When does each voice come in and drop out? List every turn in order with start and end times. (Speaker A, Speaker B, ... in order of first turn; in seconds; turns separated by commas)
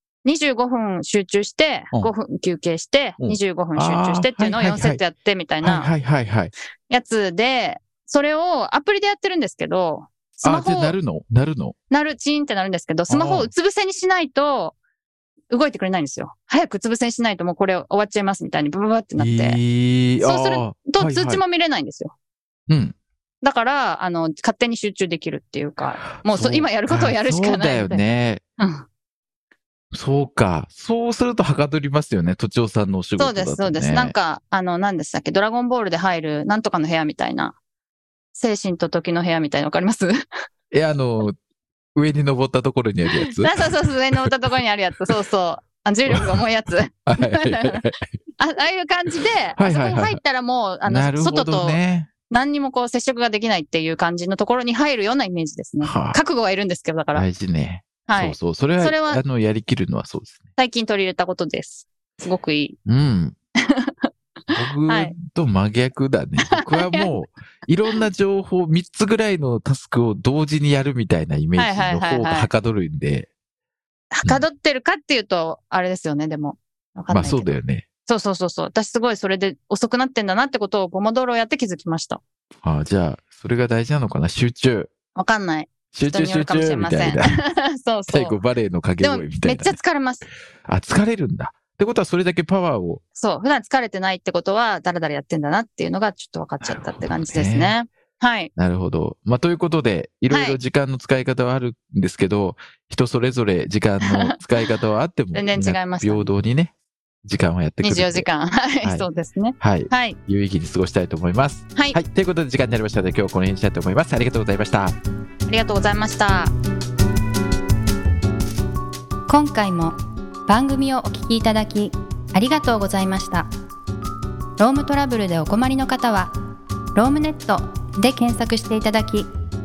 Speaker A: 0.2-5.9, Speaker B: 3.2-5.0, Speaker B: 5.6-6.5, Speaker A: 6.9-10.9, Speaker B: 10.4-11.7, Speaker A: 11.9-14.8, Speaker B: 13.1-13.5, Speaker A: 15.5-19.6, Speaker B: 19.2-21.4, Speaker A: 20.2-22.1, Speaker B: 22.7-22.9, Speaker A: 23.4-28.0, Speaker B: 26.1-28.4, Speaker A: 28.6-28.9, Speaker B: 29.9-34.1, Speaker A: 33.2-37.5, Speaker A: 38.3-40.1, Speaker B: 40.7-41.4, Speaker B: 42.0-44.3, Speaker A: 43.4-47.8, Speaker B: 47.0-48.0, Speaker A: 48.4-57.2, Speaker B: 49.6-50.2, Speaker B: 50.8-52.1, Speaker B: 55.8-56.2, Speaker B: 57.1-60.4, Speaker A: 58.1-59.2, Speaker A: 60.6-62.8, Speaker B: 62.9-63.4, Speaker A: 63.7-65.1, Speaker B: 64.5-73.3, Speaker A: 66.5-67.1, Speaker A: 71.5-72.5, Speaker A: 74.1-82.2, Speaker B: 77.1-77.9, Speaker B: 82.6-84.9, Speaker A: 85.2-88.4, Speaker B: 85.9-87.4, Speaker B: 88.1-89.8, Speaker A: 89.0-90.2, Speaker B: 90.7-93.0, Speaker A: 93.2-98.5, Speaker B: 96.6-97.8, Speaker B: 98.5-106.7, Speaker A: 100.3-100.6, Speaker A: 105.3-106.3, Speaker B: 107.2-108.3, Speaker A: 107.8-110.2, Speaker B: 108.8-115.0, Speaker A: 115.5-116.5, Speaker C: 119.3-123.5, Speaker C: 124.6-126.3, Speaker C: 126.9-129.3